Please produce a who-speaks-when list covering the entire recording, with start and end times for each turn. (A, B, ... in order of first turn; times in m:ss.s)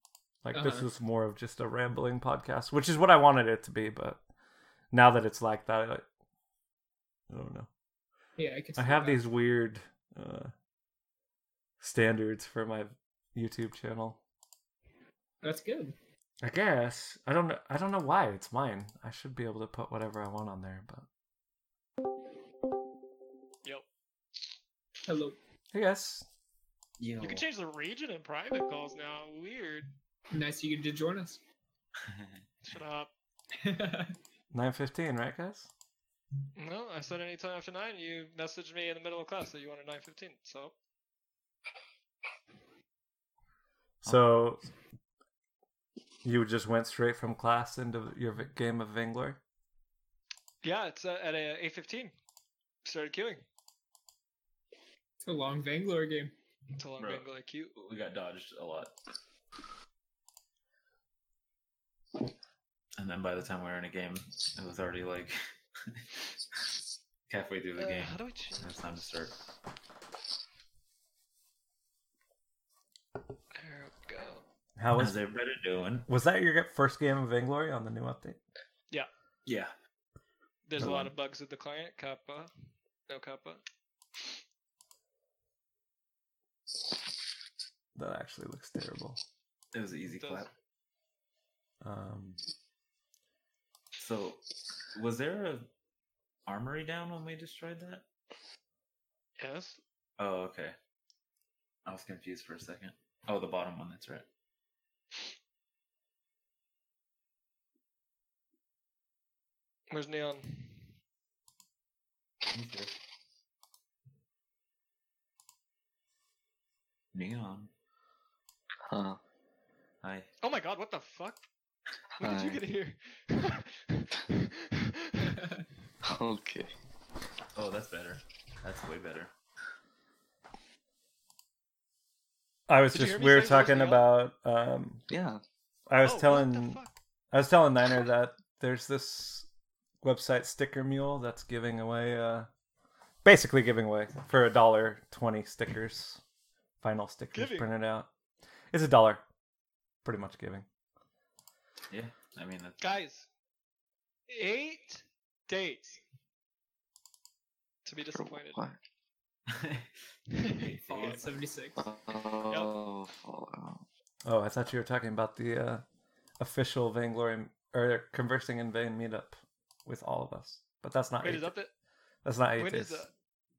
0:00.4-0:04.2 A
0:00.5-0:00.9 B
0:04.9-0:06.0 A
0:07.3-0:07.7 A
0:08.4-0:09.3 B
0:08.8-0:10.5 A
0:11.8-0:14.2 A
0:15.4-0:16.0 B
0:16.4-0:21.1 A
0:25.0-0:25.4 B
0:25.7-0:26.2 A
0:27.0-0:27.4 C
0:27.2-0:29.9 D
0:30.3-0:31.4 B
0:32.0-0:32.4 C
0:32.6-0:33.1 D
0:33.6-0:34.2 B
0:34.5-0:35.7 A
0:36.6-0:40.7 D
0:44.0-0:44.7 A
0:46.2-0:49.4 A
0:50.6-0:52.1 D
0:52.8-0:53.4 D
0:55.2-0:56.3 B
0:56.8-0:57.7 D
0:57.0-0:58.9 C
1:03.0-1:06.1 C
1:07.3-1:09.3 C
1:07.8-1:09.4 D
1:13.6-1:14.4 D
1:14.8-1:15.2 A
1:15.0-1:16.1 C
1:16.1-1:18.4 A
1:19.5-1:19.7 C
1:20.7-1:22.5 D
1:20.8-1:21.1 A
1:23.1-1:23.6 D
1:28.0-1:29.2 A
1:29.7-1:30.5 C
1:30.1-1:30.5 D
1:31.8-1:32.4 A
1:33.9-1:35.7 C
1:36.5-1:38.1 C
1:39.4-1:39.8 D
1:40.2-1:40.8 C
1:41.9-1:44.3 C
1:49.9-1:50.9 D
1:52.5-1:52.9 C
1:57.1-1:57.7 C
1:58.9-1:59.2 E
2:00.0-2:00.3 C
2:00.4-2:01.4 D
2:02.2-2:05.5 D
2:02.2-2:02.6 E
2:06.0-2:06.7 E
2:07.6-2:09.3 C
2:12.7-2:15.0 A
2:12.9-2:14.1 D
2:15.1-2:15.4 E
2:15.9-2:16.8 A
2:16.0-2:16.9 D
2:17.3-2:19.5 A
2:20.0-2:22.5 A
2:23.2-2:26.2 A
2:26.8-2:28.1 A
2:27.3-2:27.7 D
2:28.7-2:29.2 A
2:30.0-2:30.6 A
2:31.9-2:32.9 C
2:32.8-2:33.3 D
2:34.3-2:36.0 D
2:37.8-2:38.6 D
2:38.1-2:38.8 E
2:39.5-2:39.9 C
2:40.3-2:41.2 D
2:40.6-2:41.8 B
2:40.7-2:41.2 C
2:41.8-2:43.8 E
2:42.5-2:42.8 D
2:44.2-2:45.8 A
2:46.4-2:51.5 A
2:51.2-2:51.7 D
2:52.2-2:53.0 A
2:52.6-2:53.1 D